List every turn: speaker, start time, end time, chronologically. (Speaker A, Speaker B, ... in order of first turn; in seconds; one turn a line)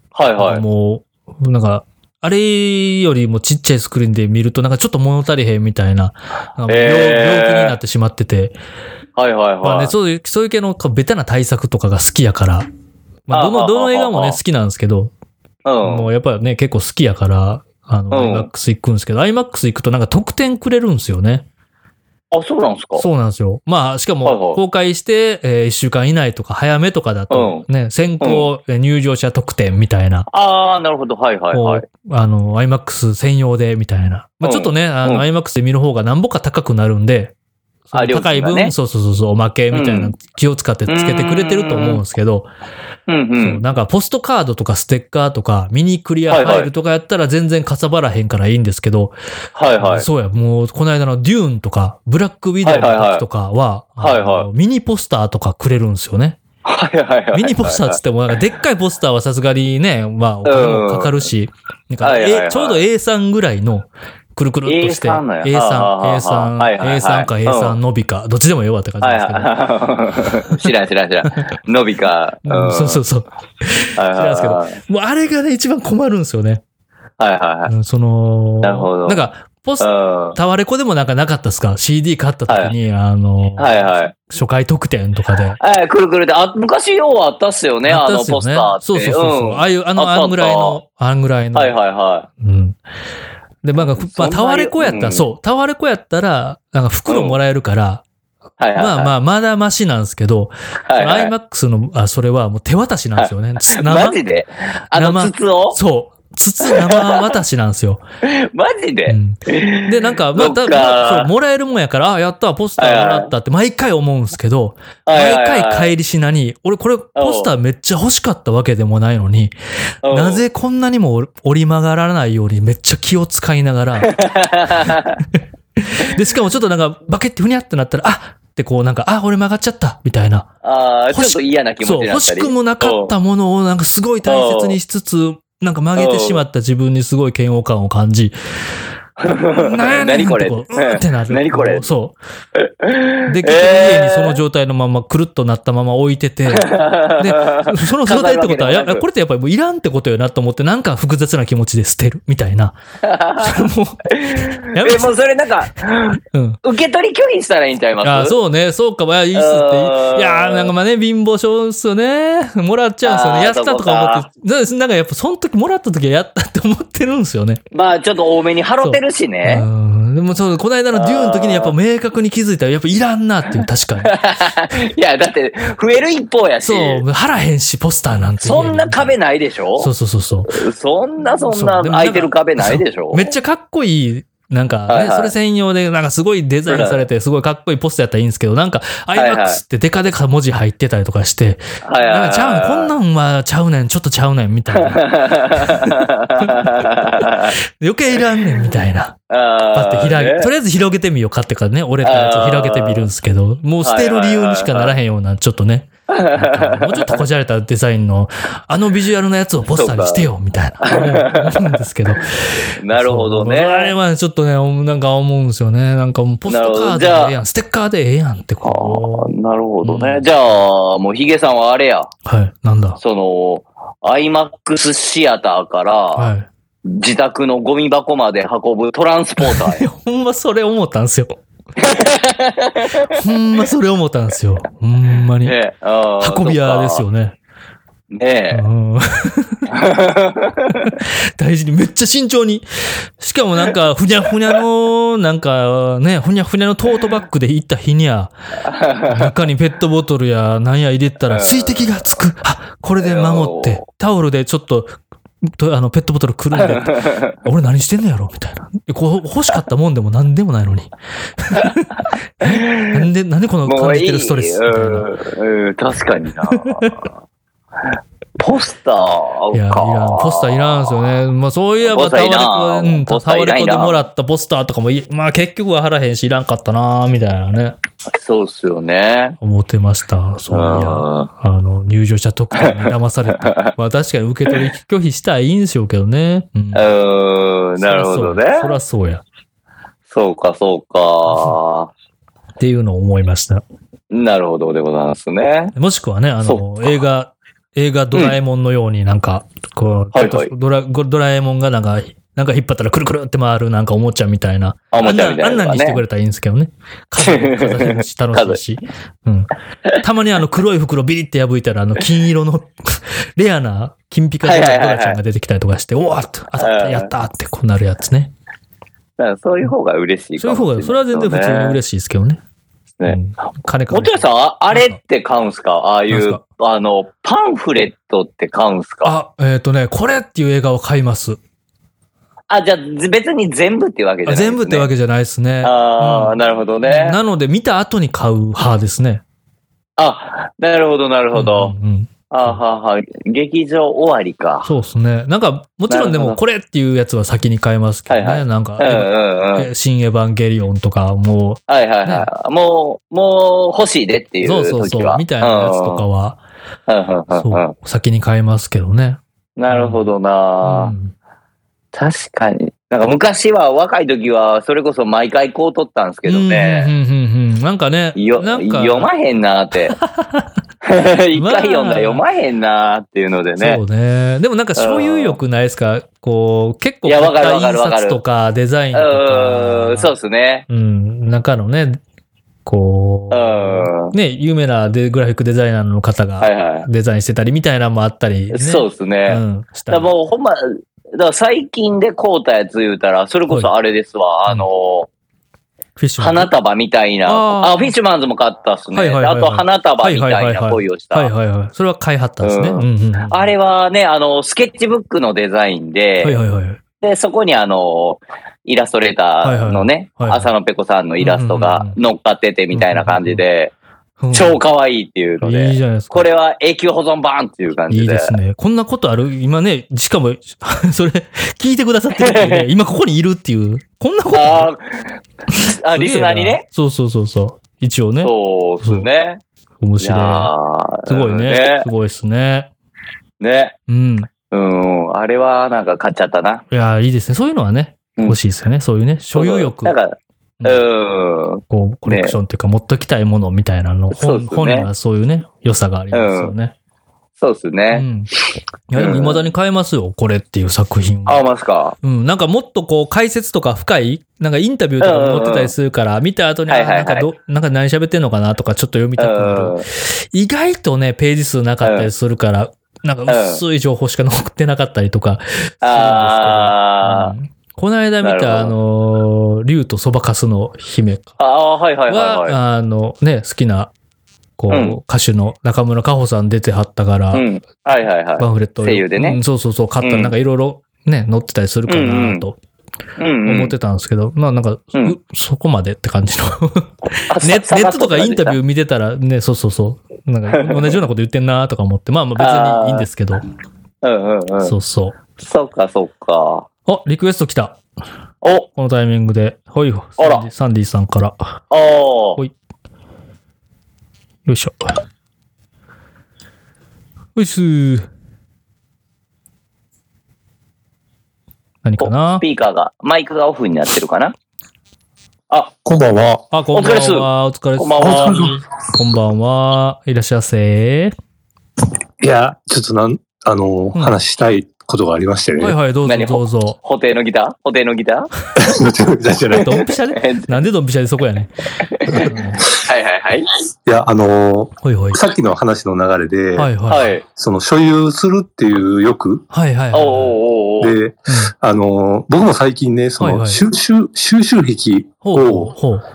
Speaker A: 0.1-0.6
Speaker B: 0.4-8.6
Speaker A: 6.7-7.8
Speaker A: 9.2-9.9
Speaker B: 9.6-12.7
Speaker B: 13.3-15.1
Speaker A: 13.3-14.4
Speaker A: 15.7-16.1
Speaker B: 15.8-21.4
Speaker A: 18.1-18.5
Speaker A: 22.3-23.1
Speaker B: 23.0-30.3
Speaker A: 24.2-24.6
Speaker A: 27.3-27.7
Speaker A: 28.2-28.5
Speaker A: 30.3-31.9
Speaker B: 31.5-37.3
Speaker A: 34.4-35.2
Speaker B: 37.9-42.5
Speaker A: 37.9-38.7
Speaker A: 39.7-40.2
Speaker A: 40.9-42.0
Speaker A: 43.1-43.6
Speaker B: 43.4-49.1
Speaker A: 46.3-46.7
Speaker A: 49.5-50.1
Speaker B: 49.8-56.4
Speaker A: 52.6-53.2
Speaker A: 54.0-54.5
Speaker A: 56.6-58.0
Speaker B: 57.3-69.5
Speaker A: 60.5-61.3
Speaker A: 62.0-62.8
Speaker A: 64.7-67.8
Speaker A: 69.0-73.0
Speaker B: 70.4-70.7
Speaker B: 72.5-76.6
Speaker A: 74.0-74.8
Speaker A: 77.2-77.7
Speaker B: 77.7-85.6
Speaker A: 78.6-79.2
Speaker A: 79.8-80.4
Speaker A: 82.5-82.7
Speaker A: 83.6-84.2
Speaker A: 85.6-90.8
Speaker B: 87.8-91.8
Speaker A: 91.5-92.3
Speaker B: 92.4-92.8
Speaker B: 93.6-98.0
Speaker A: 93.8-95.3
Speaker A: 97.1-97.4
Speaker A: 98.6-99.1
Speaker B: 98.8-104.2
Speaker A: 100.9-101.3
Speaker A: 103.2-105.8
Speaker B: 104.9-108.0
Speaker A: 106.6-107.3
Speaker A: 108.2-111.3
Speaker B: 109.1-119.5
Speaker A: 112.8-113.3
Speaker A: 115.1-116.0
Speaker A: 117.2-117.5
Speaker A: 120.0-120.4
Speaker B: 120.1-124.1
Speaker A: 124.1-125.2
Speaker B: 125.4-130.5
Speaker A: 130.6-133.1
Speaker B: 131.1-138.3
Speaker A: 134.2-134.8
Speaker A: 136.0-136.4
Speaker A: 139.2-141.9
Speaker B: 139.6-142.2
Speaker A: 142.6-144.4
Speaker B: 143.3-152.8
Speaker A: 146.5-149.1
Speaker A: 153.0-158.4
Speaker B: 153.4-155.2
Speaker B: 156.3-156.6
Speaker B: 158.0-167.6
Speaker A: 159.3-160.7
Speaker A: 163.0-164.3
Speaker A: 167.7-169.7
Speaker B: 168.8-174.2
Speaker A: 170.9-171.8
Speaker A: 173.6-177.0
Speaker B: 176.6-179.2
Speaker A: 178.4-179.9
Speaker B: 179.8-180.6
Speaker A: 180.5-183.3
Speaker B: 181.5-199.2
Speaker A: 184.9-185.3
Speaker A: 186.7-187.1
Speaker A: 189.2-189.6
Speaker A: 191.8-192.9
Speaker A: 194.7-197.6
Speaker A: 199.3-200.5
Speaker B: 199.7-220.3
Speaker A: 202.0-203.1
Speaker A: 203.8-205.0
Speaker A: 206.1-207.2
Speaker A: 209.7-210.3
Speaker A: 210.8-211.8
Speaker A: 212.8-213.9
Speaker A: 216.5-217.4
Speaker A: 218.6-222.1
Speaker B: 222.2-223.0
Speaker A: 223.0-226.3
Speaker B: 226.2-226.5
Speaker A: 226.8-229.8
Speaker B: 229.4-231.4
Speaker A: 231.8-233.2
Speaker B: 233.1-235.6
Speaker A: 235.4-237.1
Speaker B: 236.2-237.3
Speaker A: 238.1-238.6
Speaker B: 238.5-239.7
Speaker A: 239.7-240.9
Speaker B: 240.7-248.3
Speaker A: 248.6-249.3
Speaker B: 249.1-265.1
Speaker A: 251.3-252.1
Speaker A: 253.0-253.8
Speaker A: 256.5-257.3
Speaker A: 262.4-263.1
Speaker A: 263.7-267.1
Speaker B: 266.5-267.0
Speaker A: 268.4-271.1
Speaker B: 269.5-277.8
Speaker A: 271.8-274.0
Speaker A: 278.1-279.4
Speaker B: 279.4-286.9
Speaker A: 280.5-281.3
Speaker A: 282.6-283.7
Speaker A: 286.7-288.7
Speaker B: 287.8-289.2
Speaker A: 290.1-291.9
Speaker B: 291.3-291.6
Speaker B: 292.6-293.6
Speaker A: 294.1-295.7
Speaker B: 295.8-318.3
Speaker A: 300.1-300.5
Speaker A: 304.9-306.0
Speaker A: 307.2-308.6
Speaker A: 314.4-315.2
Speaker A: 316.6-317.1
Speaker A: 319.2-321.8
Speaker B: 320.4-322.4
Speaker B: 323.1-325.0
Speaker A: 323.9-329.1
Speaker B: 326.1-326.4
Speaker B: 329.0-331.4
Speaker A: 332.5-334.9
Speaker B: 334.3-339.2
Speaker A: 335.6-337.2
Speaker A: 340.0-341.7
Speaker B: 341.3-342.6
Speaker A: 342.3-344.7
Speaker B: 344.6-352.3
Speaker A: 345.9-346.4
Speaker A: 348.1-349.7
Speaker A: 351.7-356.0
Speaker B: 354.4-356.4
Speaker A: 356.9-357.7
Speaker B: 357.3-360.1
Speaker A: 359.6-360.9
Speaker B: 360.6-361.1
Speaker A: 361.9-366.9
Speaker B: 366.3-369.1
Speaker A: 368.1-370.0
Speaker B: 369.9-370.5
Speaker A: 370.8-373.8
Speaker B: 371.4-372.2
Speaker B: 373.6-380.1
Speaker A: 374.8-375.4
Speaker A: 377.1-378.2
Speaker A: 378.9-380.7
Speaker B: 380.7-382.0
Speaker B: 382.6-390.1
Speaker A: 383.3-384.1
Speaker A: 386.4-386.9
Speaker A: 388.5-395.1
Speaker B: 396.0-396.5
Speaker A: 396.2-401.3
Speaker B: 397.3-397.9
Speaker B: 398.9-403.5
Speaker A: 402.4-406.4
Speaker B: 406.2-406.8
Speaker A: 407.0-413.7
Speaker B: 409.4-410.5
Speaker B: 411.2-412.0
Speaker B: 412.7-413.4
Speaker B: 414.2-414.6
Speaker A: 414.3-418.4
Speaker B: 415.4-416.3
Speaker B: 417.9-424.7
Speaker A: 422.2-422.7
Speaker A: 424.3-425.2
Speaker B: 425.5-428.3
Speaker A: 425.7-426.6
Speaker A: 428.2-429.4
Speaker B: 428.8-429.1
Speaker B: 429.8-430.5
Speaker A: 430.0-431.9
Speaker B: 431.1-432.7
Speaker A: 433.4-433.8
Speaker B: 433.9-434.3
Speaker A: 434.5-436.6
Speaker B: 436.7-439.9
Speaker A: 439.3-442.4
Speaker B: 441.7-446.7
Speaker A: 444.1-444.9
Speaker A: 446.1-446.5
Speaker A: 447.4-448.1
Speaker B: 447.9-448.3
Speaker B: 448.9-451.4
Speaker A: 448.9-449.5
Speaker A: 451.3-452.0
Speaker B: 452.0-471.4
Speaker A: 455.0-455.7
Speaker A: 456.7-457.3
Speaker A: 459.2-459.9
Speaker A: 461.8-462.1
Speaker A: 463.3-463.6
Speaker A: 465.8-467.3
Speaker A: 468.2-468.7
Speaker A: 471.4-472.6
Speaker B: 472.1-473.9
Speaker B: 474.6-477.4
Speaker A: 474.7-475.0
Speaker A: 477.3-479.4
Speaker B: 478.4-482.6
Speaker A: 480.0-480.3
Speaker A: 481.9-482.5
Speaker A: 483.2-483.8
Speaker B: 483.4-493.4
Speaker A: 487.3-488.6
Speaker A: 490.5-491.0
Speaker A: 492.4-493.1
Speaker A: 494.0-494.7
Speaker B: 494.6-495.2
Speaker A: 495.4-496.7
Speaker B: 496.9-497.8
Speaker A: 498.4-498.7
Speaker B: 498.8-501.6
Speaker A: 500.2-500.5
Speaker A: 501.7-502.4
Speaker B: 504.5-505.0
Speaker B: 507.4-508.1
Speaker B: 511.8-512.5
Speaker A: 512.0-514.3
Speaker A: 515.5-515.8
Speaker C: 515.9-516.5
Speaker B: 516.5-521.1
Speaker A: 516.7-518.5
Speaker C: 518.0-518.6
Speaker C: 522.2-525.8
Speaker B: 525.6-526.8
Speaker A: 526.0-528.3
Speaker C: 528.6-529.9
Speaker B: 529.5-531.5
Speaker A: 529.6-530.5
Speaker A: 531.9-533.5
Speaker C: 532.1-532.8
Speaker B: 532.2-532.6
Speaker C: 533.9-536.7
Speaker B: 534.8-535.2
Speaker B: 536.5-537.1
Speaker A: 536.9-537.2
Speaker C: 537.2-539.5
Speaker B: 539.5-540.4
Speaker A: 539.9-541.0
Speaker C: 540.8-545.8
Speaker B: 541.3-541.5
Speaker B: 543.2-543.6
Speaker B: 545.2-546.0